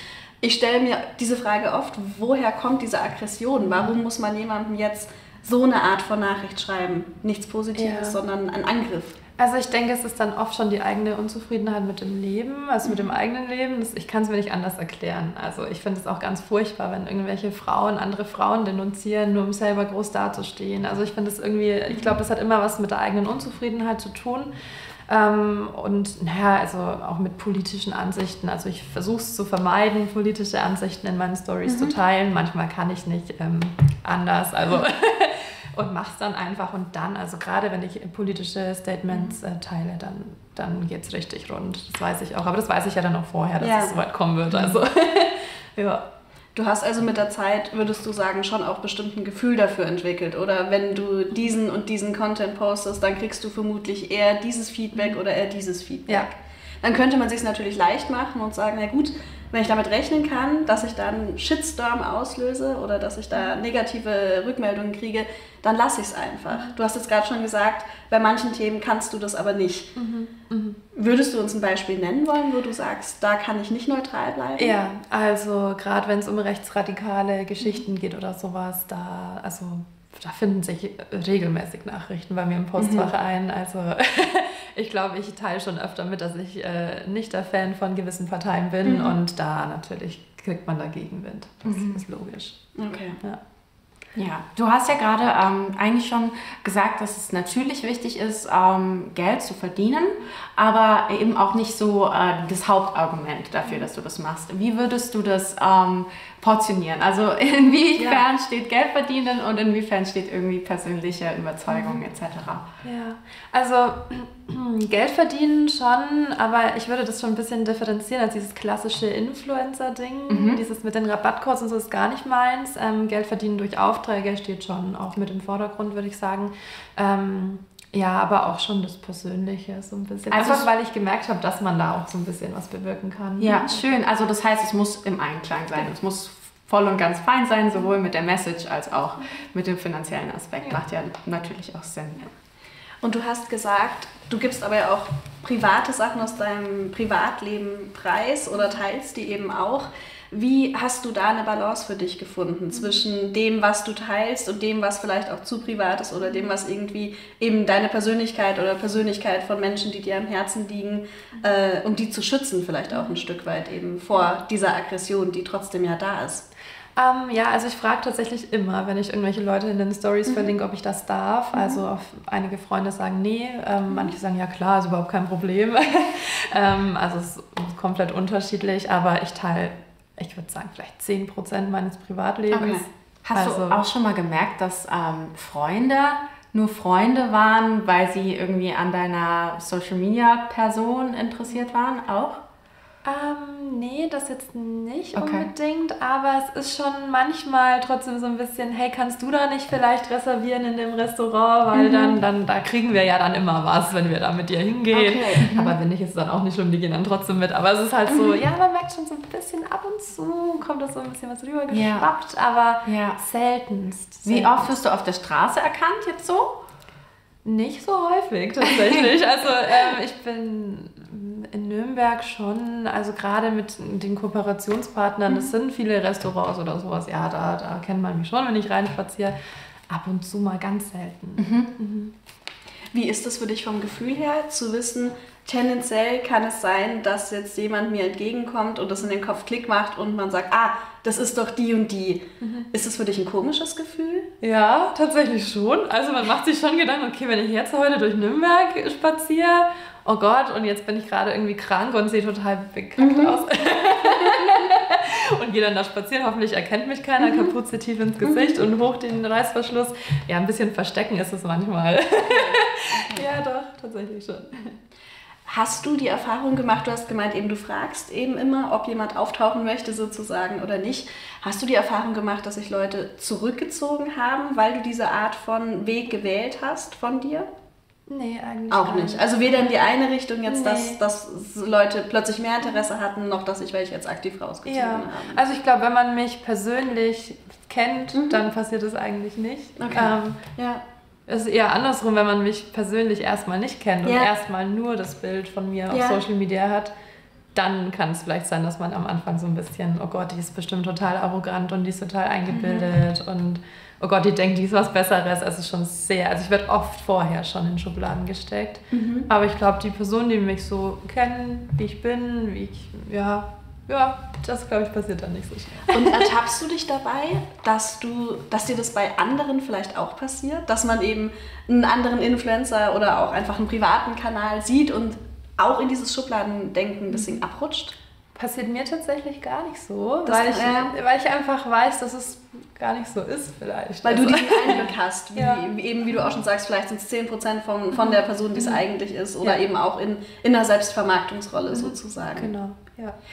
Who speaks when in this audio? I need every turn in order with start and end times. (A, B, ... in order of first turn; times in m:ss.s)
0:00.4-0:09.2 A
0:07.8-0:08.2 B
0:09.4-0:24.5 B
0:12.8-0:13.1 A
0:25.1-0:46.0 B
0:31.6-0:31.9 A
0:39.1-0:39.4 A
0:43.6-0:43.9 A
0:46.5-1:09.9 A
1:10.0-1:10.8 B
1:10.9-1:14.8 A
1:14.6-1:32.6 B
1:22.8-1:23.1 C
1:31.6-1:32.0 C
1:32.8-1:33.2 A
1:34.1-1:52.6 C
1:48.0-1:48.2 B
1:51.7-1:52.0 B
1:52.8-2:13.8 B
2:00.3-2:00.6 C
2:10.3-2:10.7 C
2:13.4-2:22.3 C
2:23.0-2:46.4 A
2:32.7-2:33.0 B
2:42.9-2:43.2 B
2:47.0-3:03.8 B
2:50.3-2:50.5 A
2:51.5-2:51.8 A
2:53.9-2:54.1 A
3:02.5-3:12.4 C
3:02.5-3:02.8 A
3:13.0-3:34.7 B
3:15.1-3:15.5 C
3:21.7-3:22.2 A
3:24.9-3:25.5 A
3:25.4-3:25.8 C
3:28.1-3:28.4 A
3:31.7-3:32.1 C
3:32.8-3:33.2 C
3:34.2-3:36.6 C
3:37.4-3:49.4 B
3:38.6-3:39.0 C
3:49.9-3:52.1 B
3:51.4-3:51.7 C
3:52.9-4:04.3 A
4:02.4-4:02.7 B
4:04.4-4:24.8 B
4:13.0-4:13.4 A
4:14.1-4:14.7 A
4:17.2-4:17.5 A
4:18.2-4:18.6 A
4:22.2-4:23.2 A
4:25.5-4:37.5 A
4:38.1-4:39.7 B
4:38.7-4:45.4 A
4:40.4-4:41.0 B
4:44.6-4:50.4 B
4:48.1-4:48.4 A
4:49.8-4:50.8 A
4:51.3-4:56.9 B
4:55.9-4:56.2 A
4:57.5-5:16.3 B
5:02.5-5:02.9 A
5:08.9-5:09.3 A
5:15.9-5:27.9 A
5:27.1-5:27.4 B
5:28.4-5:35.6 B
5:30.2-5:30.9 A
5:34.0-5:42.5 A
5:37.9-5:38.8 B
5:41.7-5:43.2 B